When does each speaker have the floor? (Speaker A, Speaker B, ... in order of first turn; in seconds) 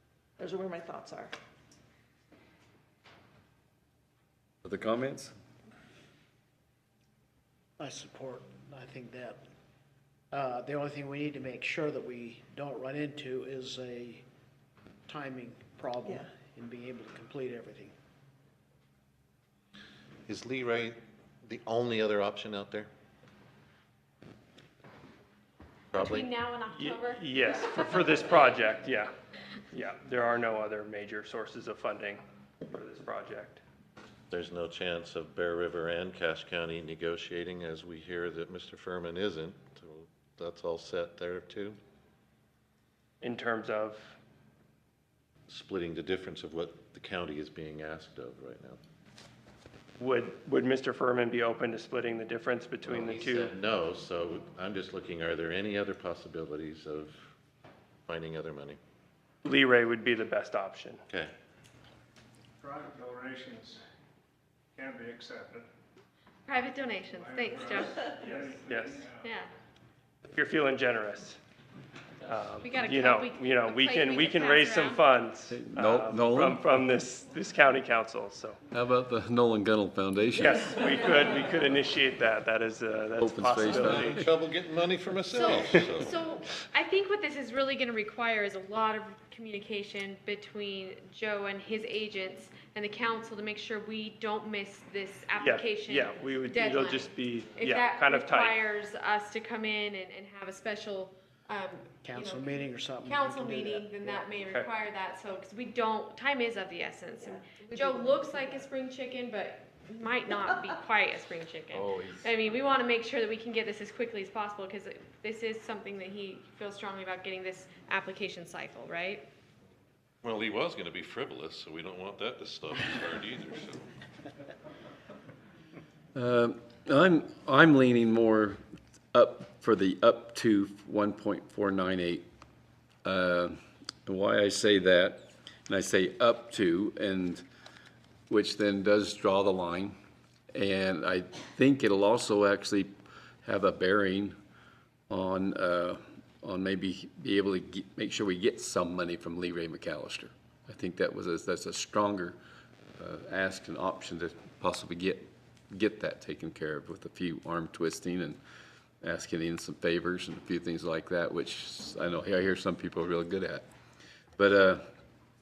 Speaker A: 0.4-1.3, 107.2-108.7
Speaker B: 4.6-5.3, 75.5-76.7, 78.7-81.2, 83.2-84.2, 111.7-112.3, 126.1-128.6, 129.1-132.2, 133.0-137.4, 138.3-139.9, 140.5-144.3, 145.1-152.4, 153.0-158.4, 159.0-163.6, 164.4-164.8
Speaker C: 7.8-9.4, 10.3-14.2, 15.1-17.9, 102.0-103.9
Speaker D: 20.3-22.9, 25.9-26.2, 34.3-41.8, 45.5-48.8, 52.9-57.3, 58.1-58.8, 61.1-61.3, 84.0-86.1, 120.2-123.9
Speaker E: 25.9-27.9, 66.5-68.3, 69.2-69.5, 72.6-75.0, 85.2-119.2
Speaker F: 26.7-29.1, 29.7-33.6, 43.2-44.1, 50.0-53.5, 59.4-61.0, 68.2-69.1, 70.3-71.4, 72.2-78.6, 80.3-84.3, 95.4-98.6, 104.0-104.7
Speaker G: 62.6-63.8, 64.8-65.7, 67.2-69.2